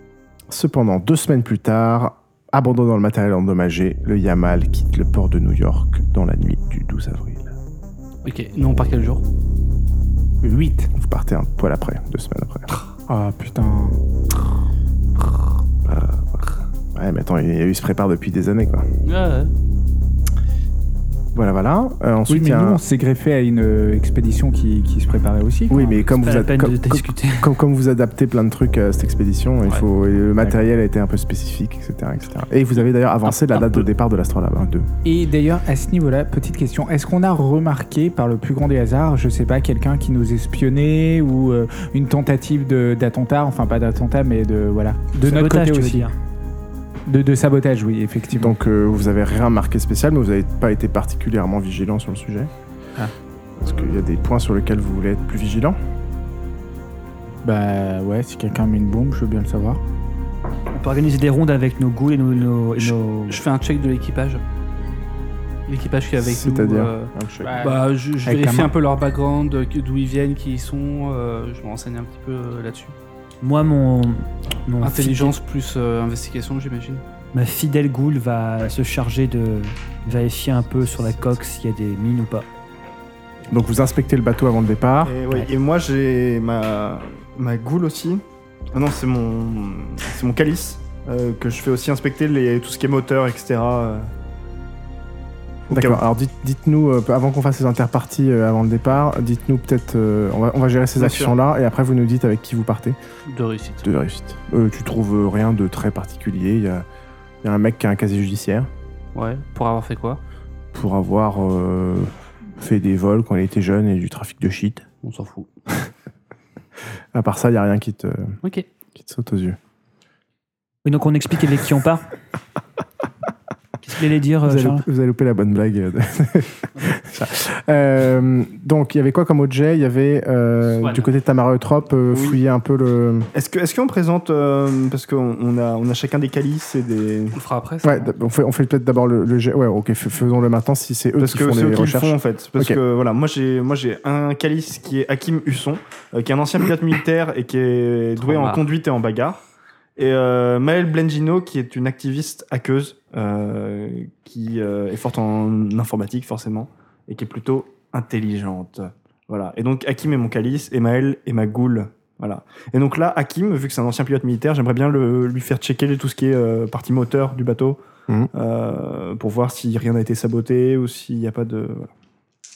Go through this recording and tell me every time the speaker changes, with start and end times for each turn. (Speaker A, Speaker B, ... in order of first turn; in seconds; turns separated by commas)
Speaker A: 0.5-7.5, Speaker B: 8.2-9.2, Speaker C: 10.4-10.9, Speaker A: 10.9-12.7, Speaker C: 13.1-14.0, Speaker A: 15.8-18.9, Speaker B: 19.0-19.5, Speaker A: 21.3-22.8, Speaker C: 22.3-26.0, Speaker A: 25.7-34.9, Speaker D: 26.2-27.5, Speaker C: 35.0-46.1, Speaker D: 45.2-46.1, Speaker C: 47.1-48.5, Speaker A: 48.3-52.5, Speaker A: 53.6-55.8, Speaker C: 57.4-59.8, Speaker D: 60.7-63.4, Speaker B: 62.8-64.4, Speaker B: 65.7-72.9, Speaker A: 66.2-67.6, Speaker C: 67.4-68.7, Speaker D: 73.4-75.3, Speaker B: 74.8-77.0, Speaker D: 77.3-82.4, Speaker A: 83.5-85.2, Speaker E: 85.0-94.1, Speaker E: 95.7-96.0, Speaker A: 95.7-103.0, Speaker E: 101.0-101.3, Speaker B: 103.3-103.9, Speaker A: 103.8-106.8, Speaker A: 107.4-108.7, Speaker B: 109.1-110.2, Speaker A: 110.7-114.8, Speaker B: 115.0-115.5, Speaker A: 117.1-118.4, Speaker A: 118.9-119.6, Speaker D: 120.8-122.1, Speaker D: 123.8-124.8, Speaker A: 124.4-133.3, Speaker B: 130.8-131.1, Speaker E: 132.1-132.4, Speaker E: 133.3-137.4, Speaker B: 137.3-138.1, Speaker A: 137.8-142.8, Speaker E: 141.2-149.4, Speaker B: 148.2-148.6, Speaker E: 150.0-167.8, Speaker E: 168.3-171.9